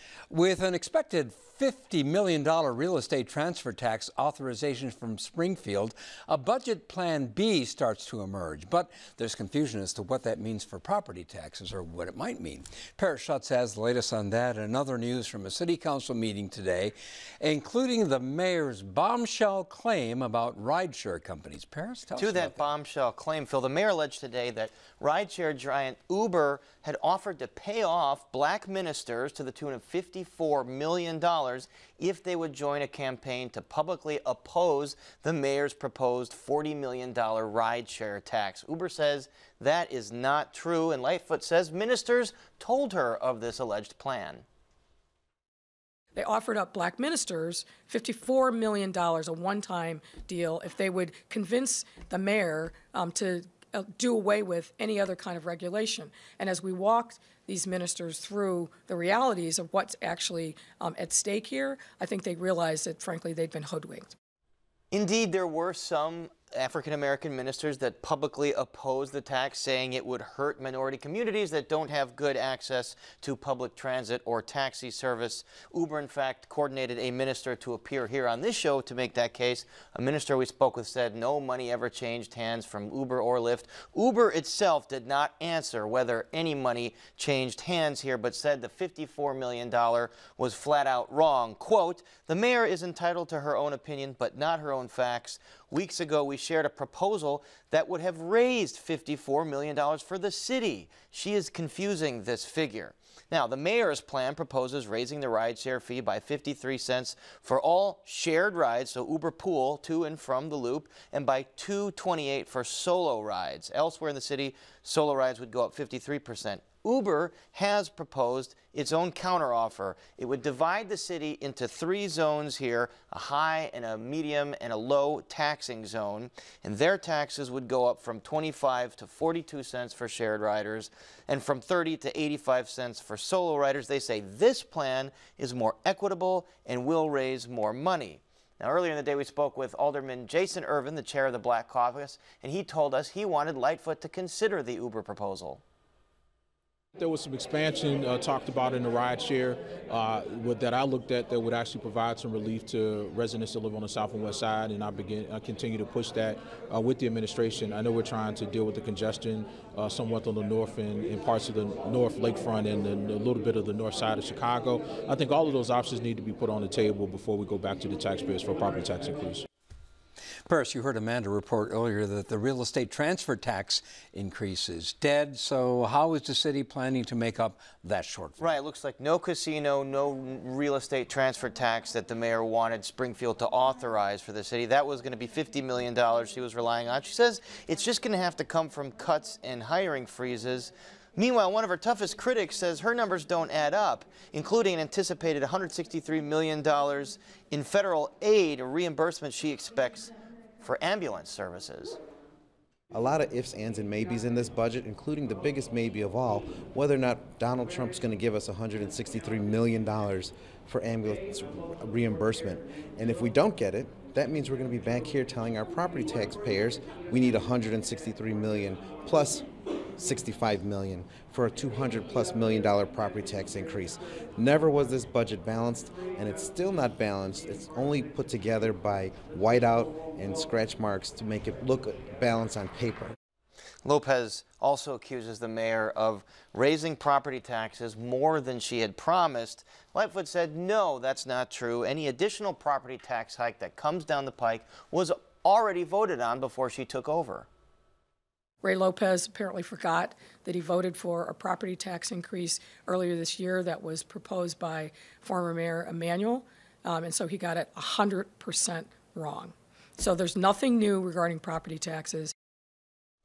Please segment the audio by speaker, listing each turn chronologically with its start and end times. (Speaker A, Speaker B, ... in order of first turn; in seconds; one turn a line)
Speaker A: 0.3-22.6
Speaker B: 22.2-44.4
Speaker C: 46.1-64.1
Speaker B: 64.9-145.6
Speaker D: 147.0-169.4
Speaker A: 170.5-178.4
Speaker B: 178.4-202.0
Speaker E: 202.9-233.1
Speaker B: 233.8-247.5
Speaker C: 248.6-262.3